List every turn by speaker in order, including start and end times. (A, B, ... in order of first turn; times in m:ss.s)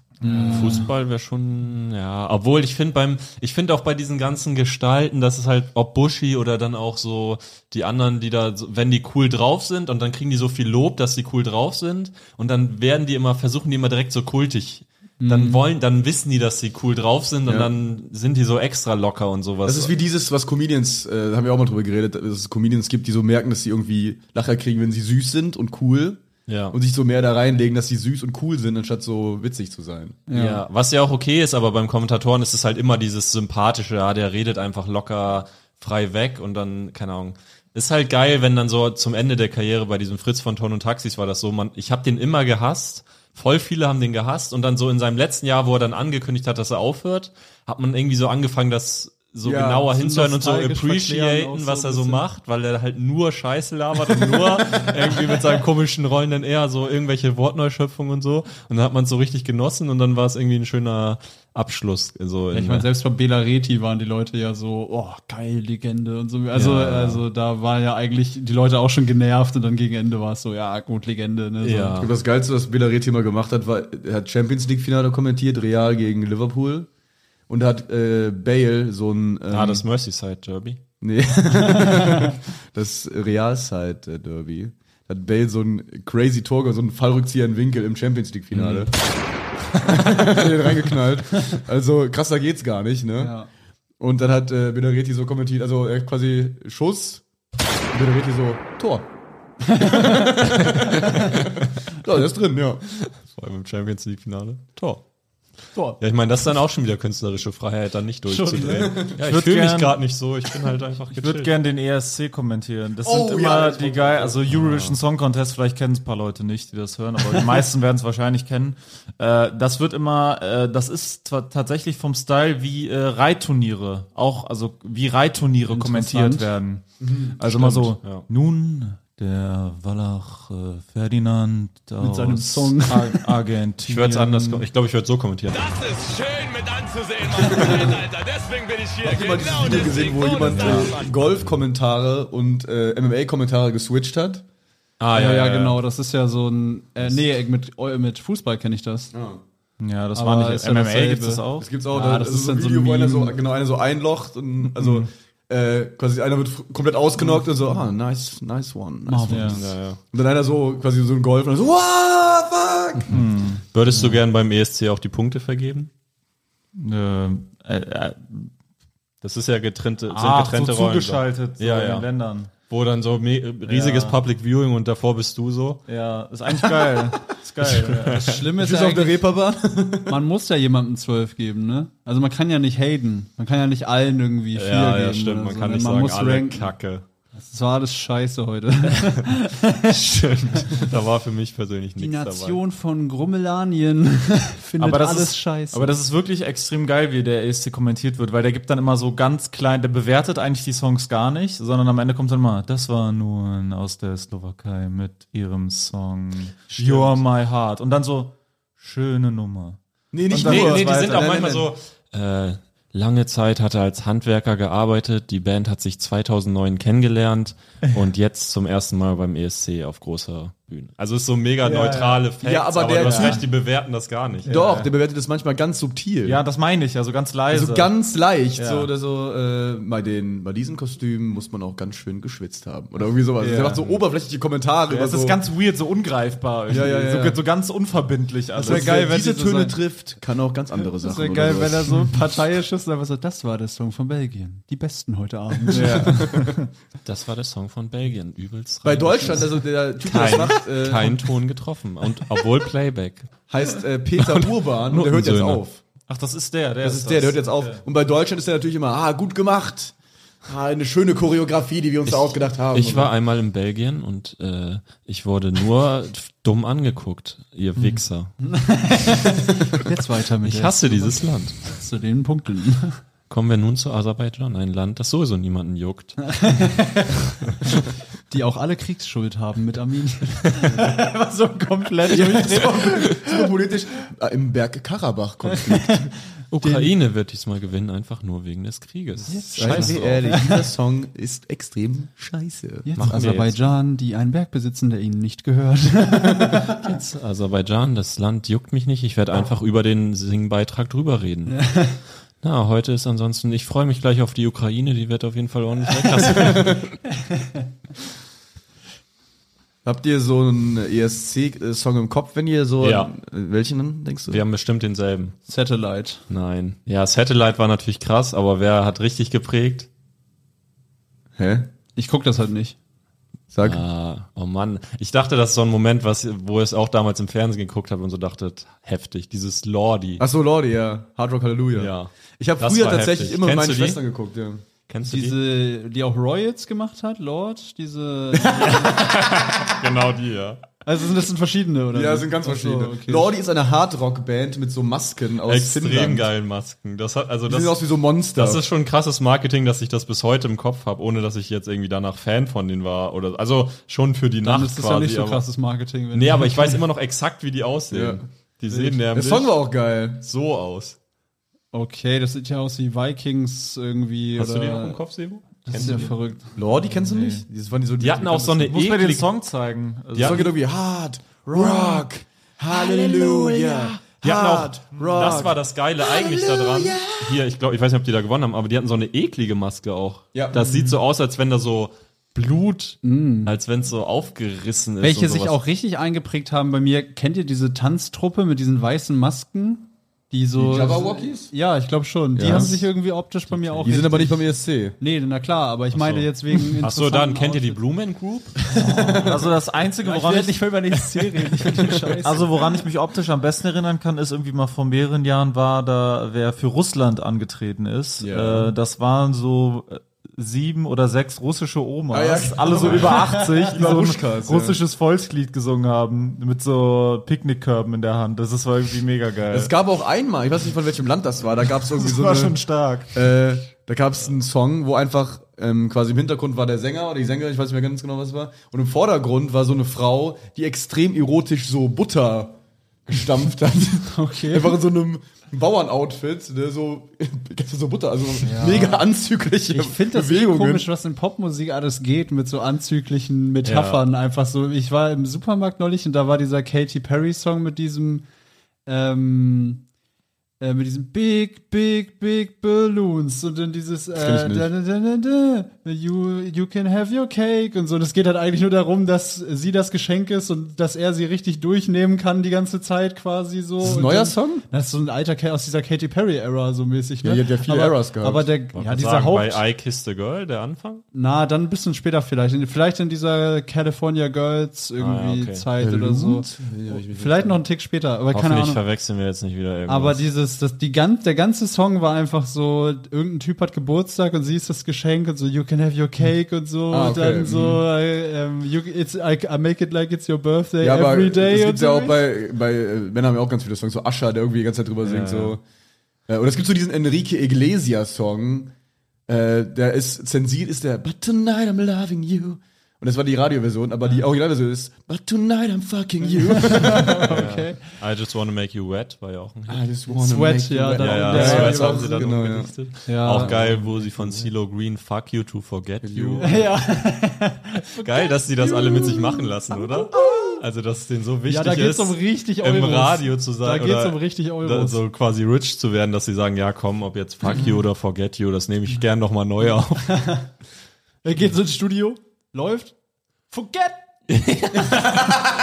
0:00.2-0:00.9 A
0:00.3-0:19.9 B
0:15.2-0:15.6 A
0:19.6-0:30.2 C
0:26.5-0:26.8 B
0:30.3-0:30.6 A
0:30.3-1:02.9 B
0:49.4-0:49.9 C
0:49.9-0:52.2 A
1:02.5-1:12.0 A
1:06.5-1:07.2 B
1:11.6-1:12.1 B
1:12.0-1:16.9 C
1:17.5-1:19.8 C
1:19.5-1:20.8 B
1:21.0-1:28.9 C
1:28.5-1:28.9 B
1:29.8-1:33.4 C
1:33.2-1:33.5 A
1:34.0-1:37.2 C
1:37.9-1:39.1 C
1:39.7-1:40.3 A
1:39.7-1:42.8 C
1:40.9-1:41.6 B
1:42.9-1:45.0 B
1:46.0-1:51.5 B
1:48.3-1:49.0 A
1:48.8-1:49.1 C
1:49.2-1:50.0 D
1:51.2-2:06.8 D
1:53.0-1:54.4 C
1:54.5-1:55.0 B
2:05.7-2:06.5 A
2:07.0-2:07.9 C
2:07.4-2:14.7 D
2:12.0-2:13.2 A
2:13.9-2:15.7 B
2:15.5-2:21.2 E
2:17.5-2:18.0 A
2:19.0-2:24.4 C
2:20.4-2:20.9 D
2:25.0-2:25.8 B
2:25.1-2:29.1 A
2:29.1-2:29.4 C
2:29.8-2:31.7 D
2:30.2-2:33.4 A
2:31.6-2:43.2 C
2:34.7-2:35.1 D
2:39.1-2:39.6 A
2:39.3-2:39.6 D
2:39.6-2:40.0 B
2:43.1-2:43.7 D
2:43.7-2:45.9 B
2:46.8-2:48.5 D
2:49.2-2:52.1 B
2:50.1-2:52.5 D
2:52.7-2:55.8 B
2:53.6-2:54.2 D
2:55.9-2:58.3 D
2:57.7-2:58.4 B
2:58.1-2:59.2 A
2:58.6-3:00.2 C
3:00.1-3:06.7 A
3:04.5-3:07.0 B
3:07.4-3:10.0 A
3:08.9-3:09.2 B
3:09.8-3:12.6 B
3:10.5-3:10.9 A
3:12.0-3:15.9 A
3:14.8-3:31.4 D
3:30.1-3:31.7 C
3:30.4-3:44.5 B
3:41.6-3:42.2 D
3:42.4-3:43.5 C
3:43.0-3:43.4 D
3:44.4-3:44.9 D
3:44.4-3:46.4 C
3:46.2-3:47.9 D
3:47.5-3:55.4 C
3:48.6-3:48.9 D
3:53.4-3:54.0 D
3:54.9-3:59.0 D
3:56.7-3:57.4 C
3:58.6-3:59.8 A
3:58.6-4:02.2 C
4:01.0-4:06.4 A
4:05.7-4:06.5 C
4:05.7-4:06.7 D
4:07.0-4:13.3 B
4:08.8-4:11.3 C
4:13.5-4:15.8 C
4:14.2-4:15.6 B
4:16.1-4:17.8 D
4:16.8-4:23.1 C
4:22.1-4:28.4 B
4:27.8-4:28.0 D
4:28.4-4:33.0 A
4:29.1-4:29.8 B
4:30.4-4:31.7 B
4:33.3-4:36.3 B
4:36.3-4:43.5 A
4:42.1-4:46.1 C
4:46.5-4:50.4 B
4:46.6-4:46.9 A
4:49.3-4:50.6 A
4:49.5-4:53.2 C
4:52.8-4:56.8 A
4:53.0-4:53.7 B
4:56.7-5:01.7 B
5:01.5-5:02.0 A
5:02.4-5:07.0 B
5:06.0-5:06.6 A
5:06.4-5:06.8 C
5:09.8-5:14.4 C
5:12.8-5:13.1 B
5:14.3-5:15.4 B
5:15.5-5:16.2 A
5:16.3-5:19.9 B
5:21.4-5:21.7 C
5:22.0-5:22.8 A
5:23.5-5:23.8 C
5:23.6-5:30.2 B
5:30.2-5:34.6 C
5:31.8-5:34.0 B
5:34.9-5:35.4 B
5:35.0-5:39.1 A
5:38.3-5:39.2 C
5:38.6-5:40.6 B
5:40.8-5:43.3 A
5:41.9-5:46.3 C
5:45.5-5:47.8 B
5:47.5-5:48.7 C
5:48.4-5:55.4 B
5:54.4-5:56.8 A
5:56.1-5:59.6 B
5:57.9-5:58.2 C
5:58.7-5:59.0 A
5:59.1-6:00.2 C
6:00.2-6:01.0 B
6:01.7-6:05.0 A
6:04.4-6:06.1 B
6:05.7-6:06.5 A
6:05.7-6:06.1 D
6:06.6-6:08.8 C
6:06.8-6:07.4 D
6:08.0-6:09.3 B
6:08.7-6:10.5 D
6:10.2-6:10.5 B
6:10.2-6:17.4 C
6:12.9-6:13.7 A
6:14.1-6:25.6 B
6:20.3-6:20.6 C
6:20.5-6:21.0 D
6:23.0-6:23.6 A
6:25.0-6:37.8 A
6:30.6-6:31.5 C
6:32.4-6:32.9 C
6:33.5-6:34.1 B
6:33.8-6:35.0 C
6:35.9-6:38.6 B
6:38.8-6:40.7 D
6:38.9-6:39.3 C
6:40.0-6:42.6 A
6:42.2-6:59.7 D
6:48.2-6:48.7 C
6:52.1-6:54.8 C
6:52.8-6:53.1 B
6:53.3-6:53.7 A
6:59.5-7:02.6 C
7:01.9-7:03.3 D
7:03.1-7:20.9 C
7:14.1-7:14.8 A
7:18.4-7:19.0 A
7:19.7-7:28.3 A
7:23.6-7:24.1 B
7:28.9-7:29.8 A
7:30.6-7:49.6 A
7:34.1-7:34.7 C
7:43.8-7:44.6 C
7:47.2-7:48.5 C
7:48.7-7:51.0 B
7:51.1-7:58.8 A
7:55.0-7:55.6 B
7:55.8-7:57.6 C
7:58.3-8:00.2 B
7:59.9-8:12.2 A
8:06.9-8:07.8 C
8:10.8-8:15.6 C
8:15.0-8:15.6 B
8:16.3-8:18.7 C
8:19.3-8:27.5 C
8:26.2-8:27.8 A
8:27.3-8:29.8 B
8:29.7-8:34.5 C
8:30.1-8:32.3 A
8:31.0-8:36.6 B
8:33.1-8:33.8 A
8:36.0-8:36.7 C
8:36.4-8:40.6 A
8:38.0-8:50.3 B
8:41.5-8:45.0 A
8:47.5-8:47.8 A
8:50.1-8:50.5 A
8:51.2-8:52.9 A
8:53.5-8:54.0 A
8:54.3-8:55.2 B